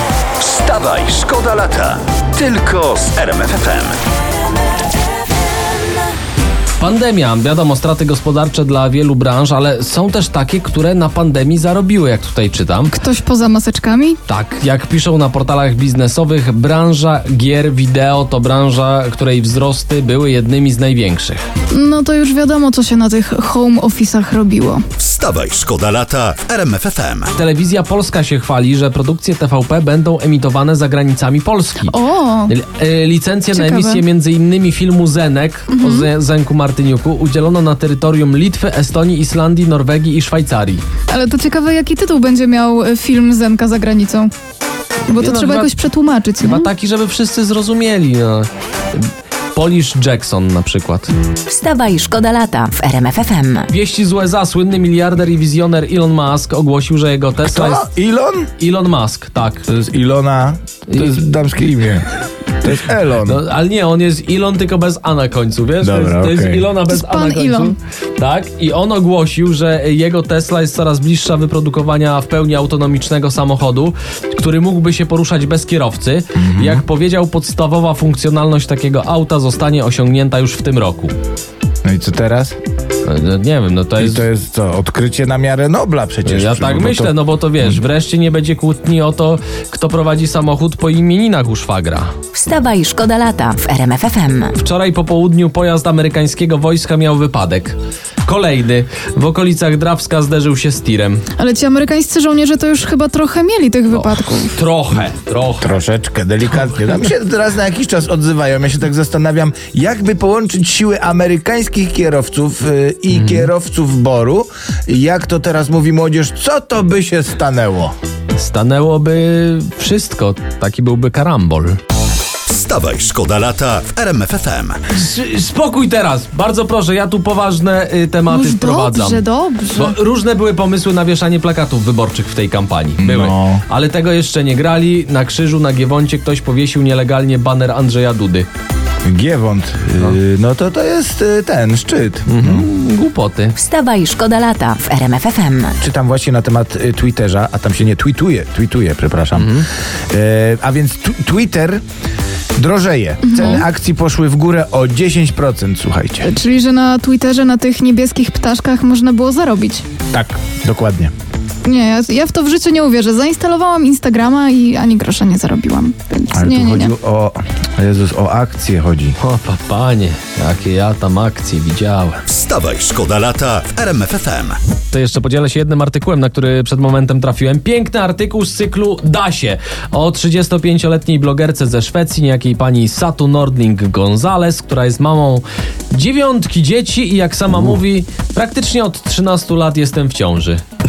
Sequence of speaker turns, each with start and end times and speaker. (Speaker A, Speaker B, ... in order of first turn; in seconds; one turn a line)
Speaker A: 0.4-4.0
Speaker B: 6.8-13.0
Speaker C: 12.9-14.2
Speaker B: 14.3-21.4
Speaker C: 21.7-24.8
Speaker A: 25.0-27.3
Speaker B: 27.3-40.8
Speaker C: 31.9-32.5
Speaker C: 33.5-34.0
Speaker C: 35.7-36.1
Speaker C: 41.1-44.3
Speaker C: 45.1-46.7
Speaker B: 45.1-45.7
Speaker B: 46.4-51.1
Speaker D: 51.5-53.7
Speaker B: 53.7-57.9
Speaker E: 57.4-58.5
Speaker B: 58.6-59.6
Speaker E: 59.7-62.1
Speaker B: 60.9-61.2
Speaker E: 62.6-63.4
Speaker B: 63.2-81.1
Speaker E: 65.8-66.6
Speaker C: 66.9-67.7
Speaker E: 76.3-76.8
Speaker E: 81.8-82.5
Speaker B: 83.0-84.2
Speaker E: 84.0-87.2
Speaker B: 86.2-92.1
Speaker D: 92.3-94.5
Speaker B: 94.5-101.2
Speaker C: 101.4-104.6
Speaker B: 103.9-105.7
Speaker E: 105.6-117.9
Speaker B: 113.1-113.5
Speaker B: 118.3-121.8
Speaker A: 122.5-124.8
Speaker B: 124.9-129.2
Speaker C: 128.3-129.9
Speaker B: 129.7-138.5
Speaker E: 133.0-133.6
Speaker E: 139.0-142.7
Speaker B: 142.3-143.6
Speaker D: 143.6-145.7
Speaker E: 145.8-151.8
Speaker B: 149.3-149.7
Speaker E: 152.6-156.3
Speaker C: 153.2-153.6
Speaker C: 156.2-159.8
Speaker E: 160.1-161.1
Speaker C: 161.6-166.9
Speaker E: 166.3-169.2
Speaker B: 169.2-172.2
Speaker A: 172.3-174.6
Speaker B: 174.9-190.6